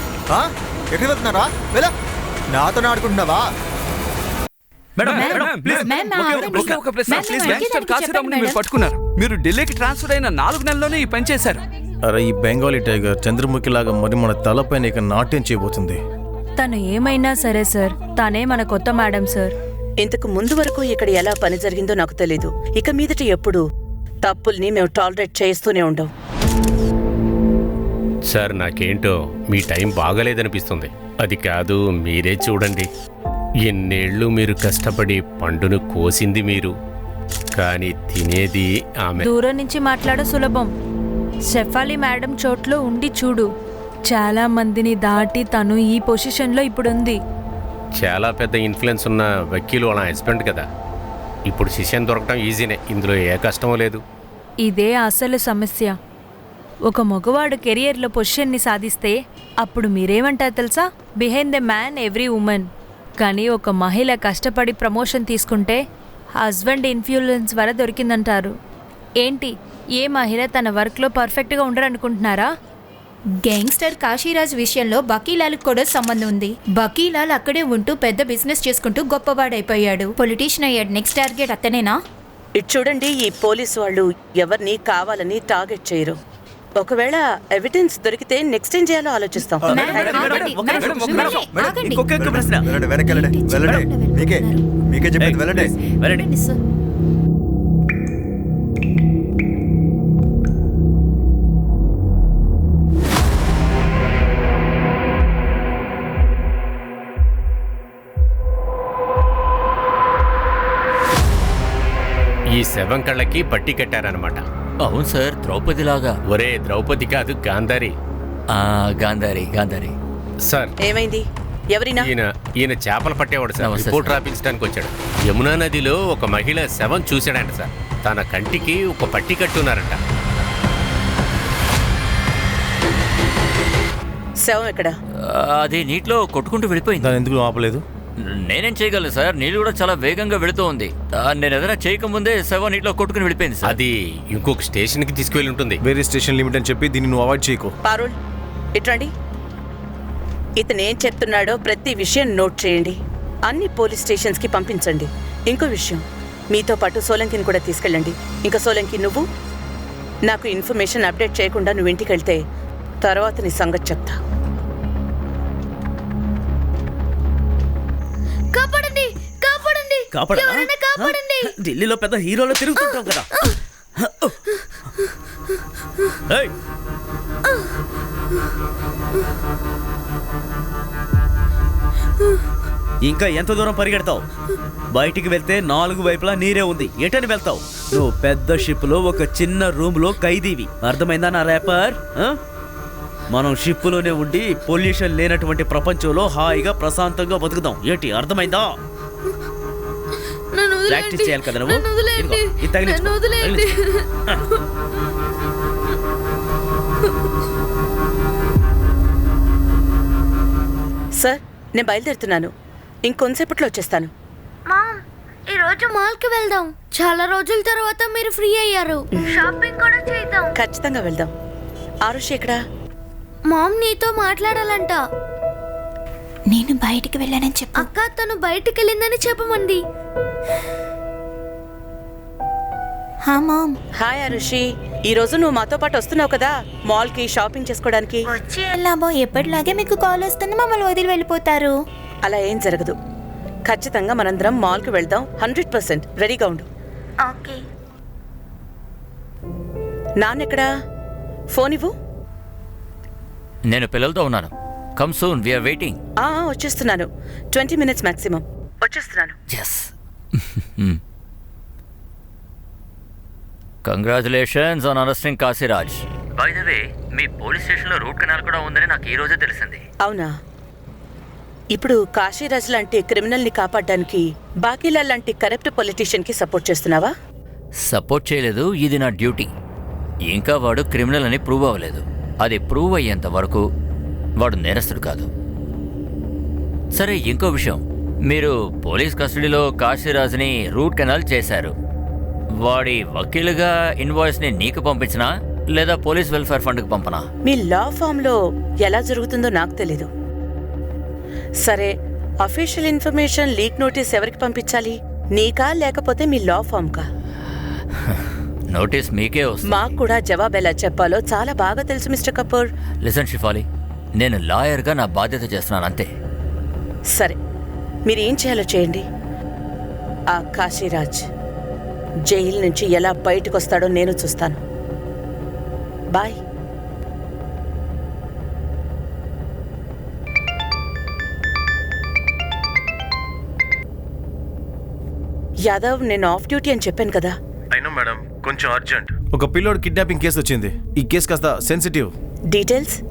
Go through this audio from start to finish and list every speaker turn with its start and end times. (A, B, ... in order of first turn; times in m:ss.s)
0:00.3-0:01.9 A
0:02.5-0:03.4 A
0:05.0-0:06.7 B
0:05.0-0:11.6 C
0:05.0-0:08.6 D
0:05.6-0:05.9 A
0:12.0-0:16.0 E
0:16.6-0:19.5 F
0:20.0-0:23.6 G
0:24.2-0:26.1 G
0:28.3-0:32.9 H
0:33.6-0:36.7 H
0:37.6-0:39.3 H
0:39.2-0:40.7 F
0:41.5-0:43.5 F
0:44.1-0:47.2 F
0:48.0-0:50.6 H
0:51.5-0:54.0 H
0:54.6-0:55.9 F
0:56.9-1:05.8 F
1:06.4-1:08.5 F
1:09.2-1:12.5 F
1:13.4-1:22.0 D
1:22.6-1:26.2 G
1:26.8-1:29.8 G
1:29.7-1:34.6 D
1:29.7-1:32.7 B
1:29.8-1:31.6 C
1:32.1-1:35.8 A
1:35.2-1:36.3 B
1:35.9-1:36.6 D
1:52.5-1:54.4 H
1:54.8-1:56.2 I
1:56.3-1:57.9 H
1:58.5-1:59.9 I
2:00.4-2:00.7 H
2:00.8-2:02.1 G
2:02.0-2:10.0 H
2:03.6-2:04.2 I
2:14.4-2:15.0 G
2:15.2-2:17.1 I
2:17.0-2:17.8 E
2:18.2-2:23.8 I
2:23.6-2:25.8 H
2:25.8-2:27.7 E
2:27.8-2:28.2 G
2:28.8-2:29.1 G
2:30.6-2:39.3 G
2:40.2-2:42.4 G
2:43.0-2:44.2 G
2:48.5-2:51.5 J
2:50.1-2:53.3 B
2:54.0-2:54.4 B
2:56.3-2:56.5 B
3:03.0-3:04.2 B
3:04.9-3:12.4 B
3:13.3-3:18.8 B
3:20.5-3:24.6 J
3:20.9-3:23.6 B
3:31.2-3:32.5 G
3:33.0-3:34.1 G
3:34.7-3:35.0 J
3:35.5-3:40.5 J
3:40.6-3:41.3 G
3:42.0-3:42.6 G
3:43.5-3:45.0 J
3:46.5-3:47.9 D
3:47.7-3:49.8 J
3:53.3-3:53.8 D
3:54.0-3:58.2 G
3:58.3-4:01.7 D
4:02.2-4:03.0 G
4:03.7-4:06.7 G
4:07.2-4:07.6 D
4:10.2-4:10.7 G
4:11.5-4:11.9 G
4:13.7-4:16.0 I
4:16.2-4:19.3 G
4:19.5-4:19.9 I
4:23.8-4:29.8 I
4:30.0-4:30.4 G
4:31.7-4:37.1 G
4:37.8-4:39.5 I
4:40.3-4:43.6 I
4:44.4-4:45.3 I
4:46.9-4:51.7 I
4:52.6-4:57.2 I
4:57.4-5:00.1 G
5:01.6-5:07.1 G
5:08.7-5:09.9 I
5:09.6-5:12.7 G
5:13.0-5:13.6 I
5:14.2-5:16.1 I
5:17.1-5:17.4 G
5:18.1-5:19.0 G
5:20.3-5:21.2 G
5:22.3-5:24.6 G
5:35.6-5:37.4 G
5:37.7-5:42.1 E
5:42.5-5:43.0 G